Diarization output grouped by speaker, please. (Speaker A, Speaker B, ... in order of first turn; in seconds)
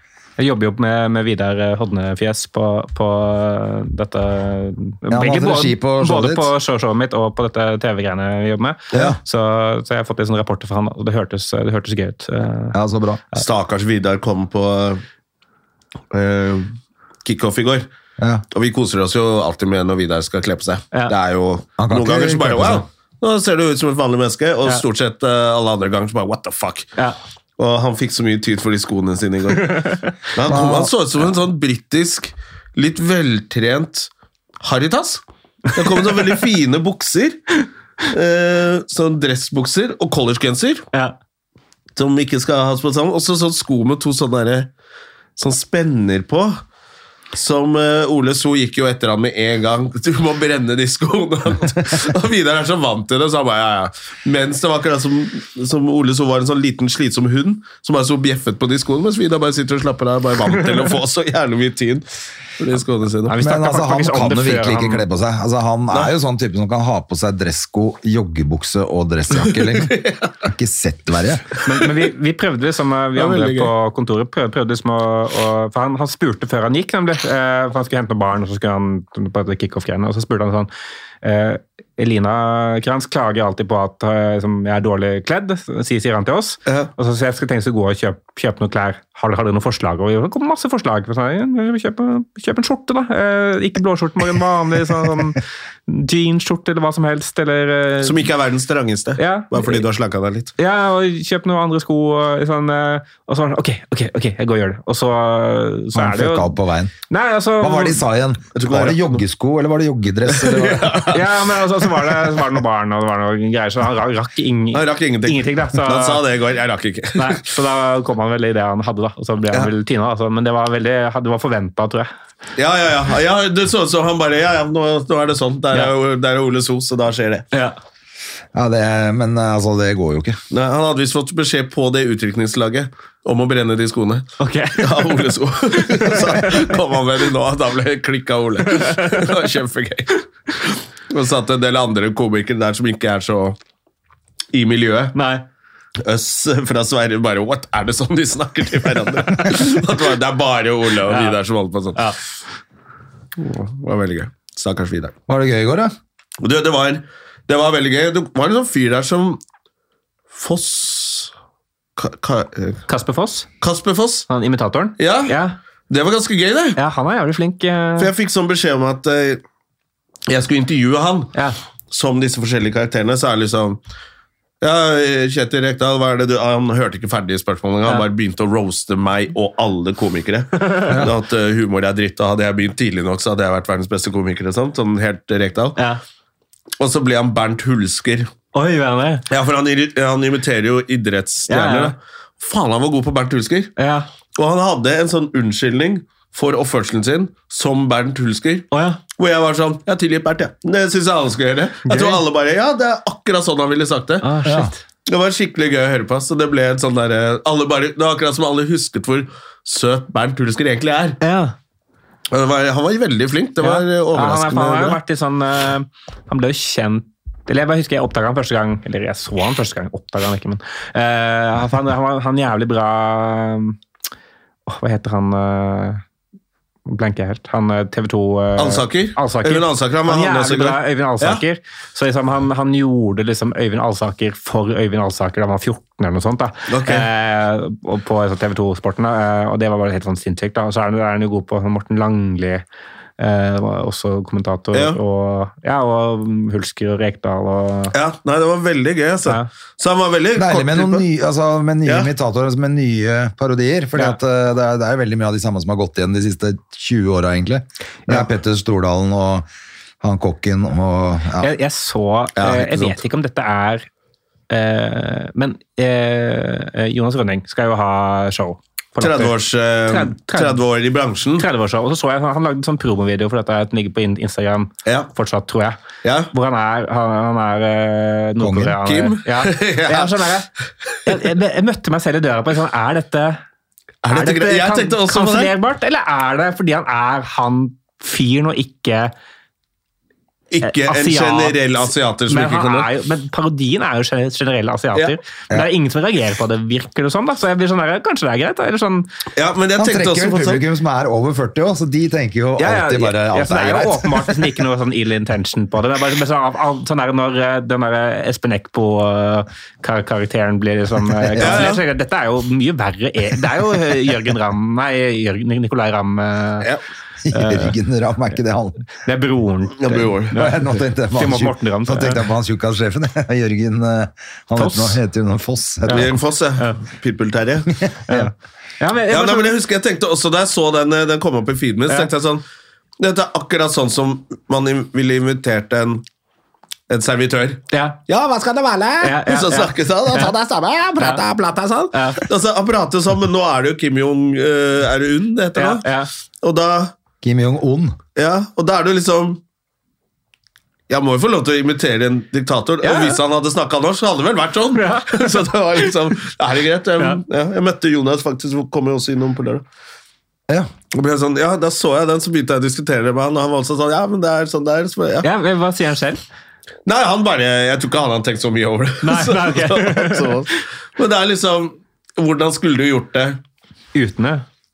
Speaker A: 0.4-12.8, 29.7-30.1, 63.3-65.0, 71.6-80.7, 81.2-98.2, 99.2-99.8, 100.6-106.5, 107.1-108.0, 111.1-116.2, 117.2-122.1, 134.4-135.2, 135.7-136.6, 138.7-139.3, 145.1-145.4, 151.1-151.4, 162.9-163.5, 164.3-165.6, 166.8-168.1, 180.6-181.0, 188.5-189.2, 191.5-191.9, 193.8-194.1, 198.7-199.0, 201.9-202.2, 204.2-204.8, 211.2-211.5, 213.6-223.8, 224.7-226.0, 226.9-242.6, 243.2-247.9, 261.4-263.9, 264.5-269.3, 269.9-270.6, 271.4-275.8, 276.3-280.5, 281.0-283.4, 284.1-289.1, 290.6-291.6, 292.3-299.1, 302.6-316.7, 317.3-317.7, 319.0-320.6, 321.1-322.2, 324.5-325.0, 325.9-326.8, 328.1-329.5, 337.7-338.0, 339.0-340.3, 341.9-342.2, 345.6-346.1, 352.8-353.2, 354.7-355.4, 365.2-366.2, 369.0-370.4, 373.9-374.4
Speaker B: 5.1-6.5, 8.9-9.2, 12.7-13.2, 18.2-18.4, 21.8-22.9, 30.4-30.9, 63.4-71.5, 105.9-106.9, 107.6-111.1, 128.5-130.4, 155.3-155.9, 204.4-204.7, 250.3-259.5, 260.0-261.5, 278.4-278.8, 299.8-304.6, 311.2-311.7, 317.2-318.8, 319.9-326.1, 327.8-328.3, 347.2-348.0
Speaker C: 13.3-15.0, 16.1-17.9, 18.5-26.9, 27.6-34.1, 34.6-37.4, 38.1-40.9, 42.0-44.7, 45.4-46.6, 47.3-62.0, 62.6-63.3, 69.5-70.3, 73.2-73.7, 98.0-100.5, 108.5-109.2, 110.3-111.2, 114.7-117.4, 122.5-127.5, 130.5-143.6, 144.5-145.1, 146.0-152.0, 153.4-155.1, 156.4-159.4, 160.3-161.3, 162.0-162.8, 163.6-164.3, 165.0-165.3, 165.9-166.8, 168.0-169.4, 170.3-171.3, 171.9-173.8, 174.6-185.8, 186.8-188.3, 189.3-193.7, 194.3-204.3, 205.1-211.2, 212.3-215.0, 228.6-231.4, 236.7-237.1, 244.7-245.0, 247.9-251.1, 262.4-263.0, 269.0-271.4, 274.8-275.1, 276.0-276.3, 278.8-280.2, 284.0-285.5, 290.5-292.9, 299.3-300.6, 311.4-311.8, 319.8-320.4, 325.9-327.8, 329.1-332.4, 333.0-336.0, 336.9-345.9, 346.4-346.9, 348.1-349.4, 350.9-359.6, 360.9-365.3, 366.9-373.4